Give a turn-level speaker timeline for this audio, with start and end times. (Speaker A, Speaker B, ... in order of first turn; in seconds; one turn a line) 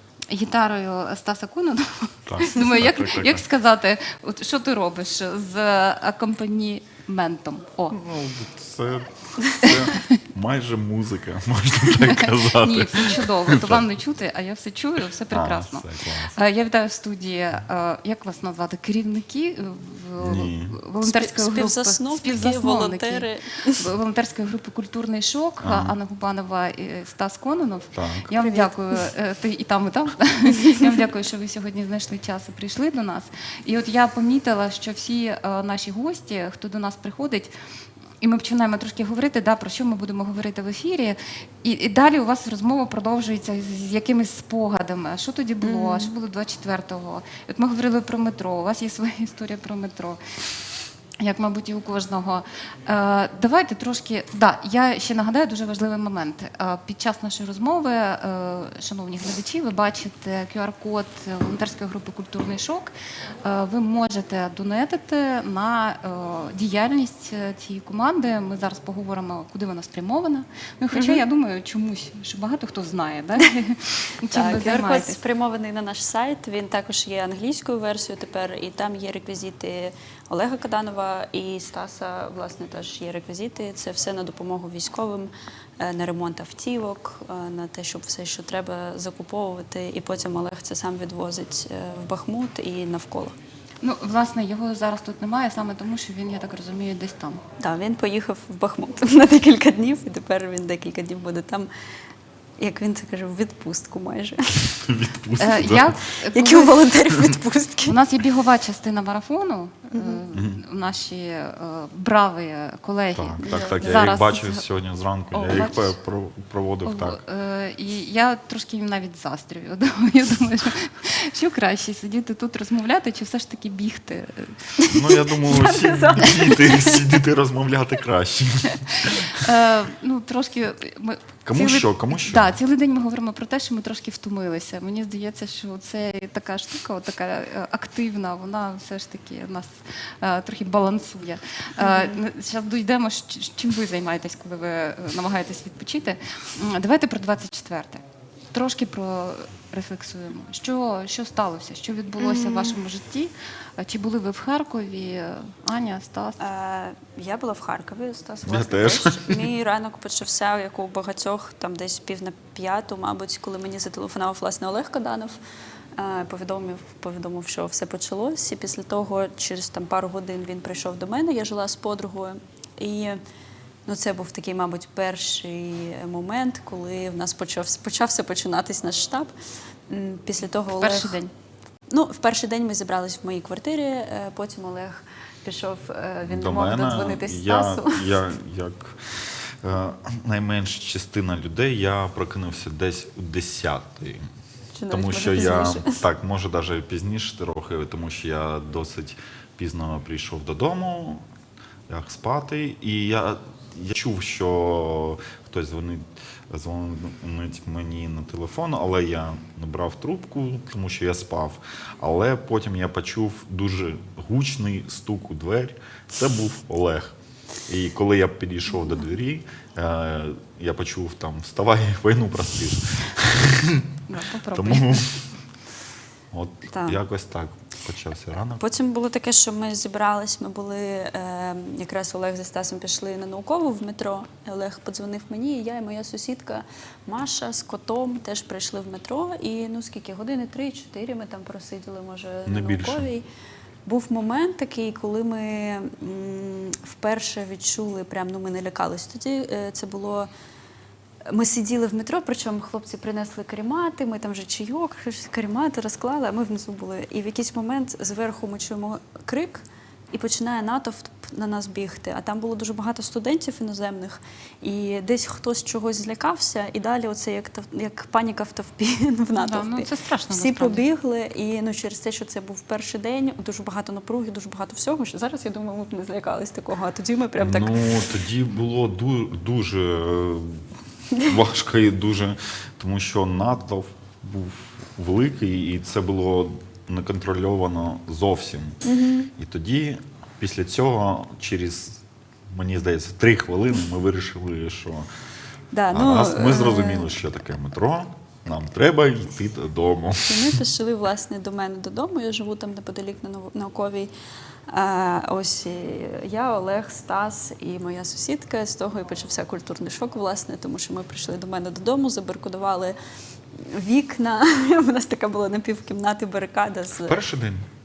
Speaker A: 0.3-8.0
Speaker B: 2.2-3.4
Speaker B: 7.9-13.8
Speaker A: 9.8-10.1
Speaker A: 12.0-37.5
Speaker B: 15.3-16.4
Speaker B: 20.2-20.8
Speaker C: 21.0-23.8
Speaker B: 25.6-25.9
Speaker B: 27.9-28.3
Speaker C: 28.3-28.8
Speaker A: 38.2-50.2
Speaker C: 45.6-46.1
Speaker A: 51.2-62.9
Speaker A: 63.4-75.2
Speaker C: 70.9-71.2
Speaker C: 74.3-93.3
Speaker A: 93.8-97.4
Speaker C: 97.6-101.7
Speaker C: 102.6-104.7
Speaker B: 104.8-106.0
Speaker A: 105.4-106.8
Speaker C: 106.3-108.0
Speaker A: 107.8-114.6
Speaker C: 109.9-110.2
Speaker B: 110.3-110.6
Speaker B: 113.1-117.2
Speaker C: 113.4-114.1
Speaker A: 115.3-115.9
Speaker A: 116.8-124.5
Speaker C: 124.8-127.1
Speaker B: 124.9-129.5
Speaker A: 129.1-156.4
Speaker B: 131.4-132.6
Speaker C: 141.8-142.2
Speaker C: 152.2-152.8
Speaker C: 156.4-165.4
Speaker B: 158.4-159.5
Speaker C: 166.0-173.2
Speaker C: 173.9-179.3
Speaker C: 179.9-181.2
Speaker A: 180.7-181.3
Speaker C: 181.9-188.2
Speaker B: 186.3-194.2
Speaker C: 194.7-196.0
Speaker B: 194.9-201.2
Speaker B: 201.9-217.1
Speaker B: 217.7-223.9
Speaker A: 224.1-225.0
Speaker B: 224.5-225.2
Speaker B: 226.3-228.6
Speaker C: 226.7-227.0
Speaker C: 228.6-243.2
Speaker B: 242.4-243.1
Speaker C: 243.8-250.3
Speaker C: 251.3-277.7
Speaker A: 269.4-270.8
Speaker B: 277.4-280.6
Speaker B: 281.2-288.8
Speaker C: 288.8-289.3
Speaker B: 289.4-292.0
Speaker B: 292.5-295.1
Speaker C: 295.7-297.1
Speaker B: 295.9-300.6
Speaker C: 300.2-304.1
Speaker C: 304.7-312.9
Speaker C: 313.6-317.2
Speaker B: 317.0-317.6